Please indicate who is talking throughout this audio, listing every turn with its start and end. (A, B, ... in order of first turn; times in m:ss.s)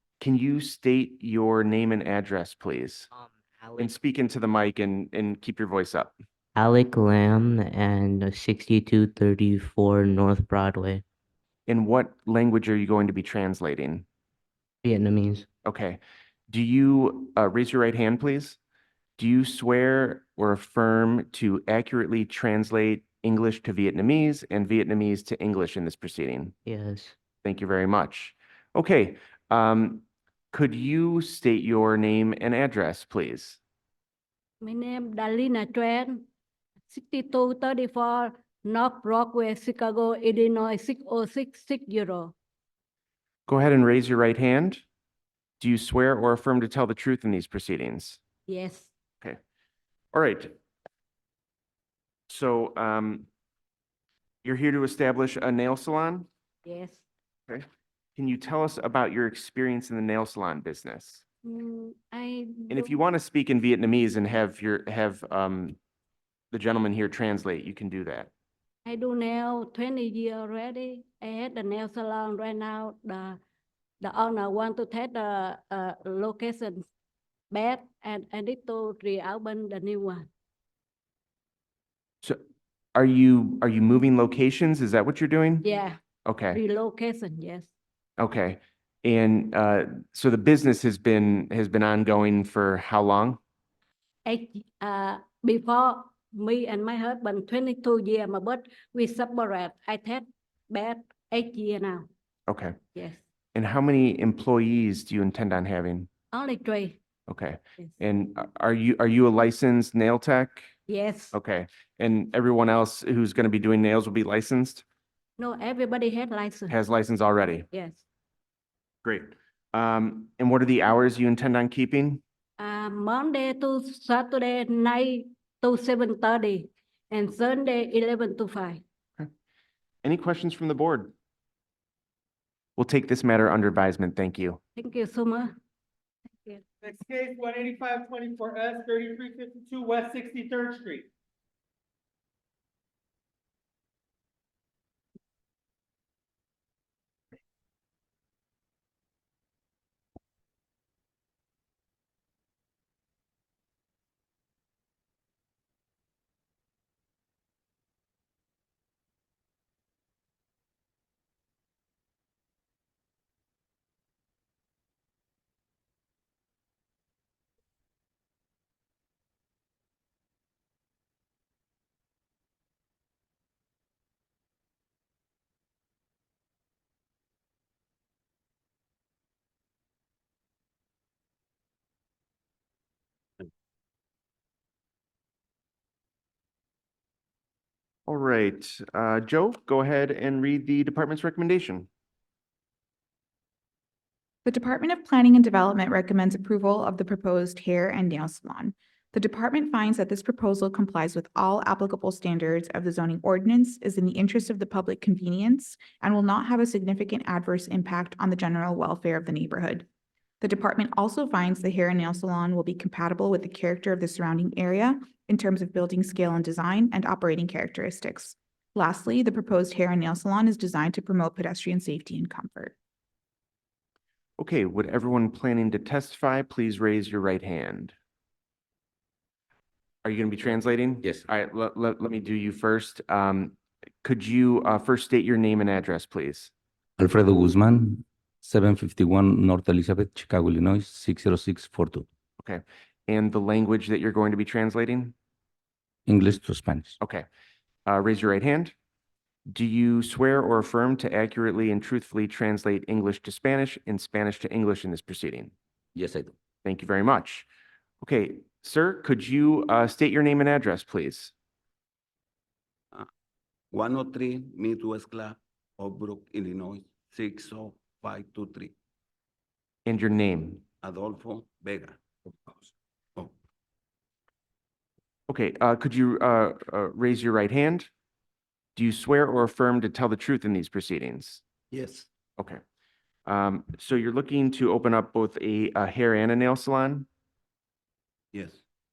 0:00.2-0:03.1 A
0:03.8-0:06.1 A
0:06.6-0:11.0 B
0:11.7-0:14.1 A
0:14.8-0:15.5 B
0:15.6-0:18.6 A
0:19.2-0:26.5 A
0:26.7-0:27.2 B
0:27.4-0:33.6 A
0:34.6-0:36.3 C
0:36.9-0:42.4 C
0:43.5-0:44.8 A
0:45.6-0:48.2 A
0:48.5-0:48.9 C
0:50.1-0:50.5 A
0:52.3-0:53.3 A
0:54.4-0:56.3 A
0:56.6-0:57.0 C
0:57.5-1:01.2 A
1:01.4-1:03.0 C
1:02.7-1:05.8 A
1:06.5-1:08.3 A
1:08.9-1:13.4 C
1:14.0-1:16.8 C
1:17.5-1:20.3 C
1:23.0-1:25.7 A
1:25.6-1:26.0 C
1:26.2-1:26.6 A
1:26.5-1:27.7 C
1:28.2-1:33.4 A
1:34.3-1:42.1 C
1:42.5-1:42.8 A
1:43.0-1:43.2 C
1:43.5-1:46.1 A
1:46.3-1:47.0 C
1:47.3-1:50.7 A
1:50.9-1:51.4 C
1:51.3-1:54.8 A
1:55.4-1:56.8 C
1:56.7-1:57.7 A
1:57.7-1:58.0 C
1:59.0-2:02.2 A
2:02.6-2:08.8 C
2:10.0-2:11.1 A
2:12.8-2:14.6 A
2:14.8-2:15.6 C
2:16.8-2:21.1 D
3:08.1-3:11.9 A
3:14.5-3:29.9 E
3:30.4-3:42.8 E
3:44.4-3:47.9 A
3:50.0-3:56.5 A
3:57.0-4:02.1 F
4:02.4-4:05.1 A
4:06.1-4:07.0 F
4:07.0-4:07.3 A
4:07.9-4:08.8 A
4:09.5-4:15.5 A
4:16.0-4:16.3 F
4:16.6-4:17.5 A
4:18.0-4:21.3 A
4:23.7-4:28.7 G
4:29.9-4:30.6 A
4:30.8-4:32.0 G
4:35.3-4:37.9 A
4:38.8-4:41.4 A
4:41.7-4:42.1 G
4:43.3-4:47.1 A
4:48.3-4:48.6 G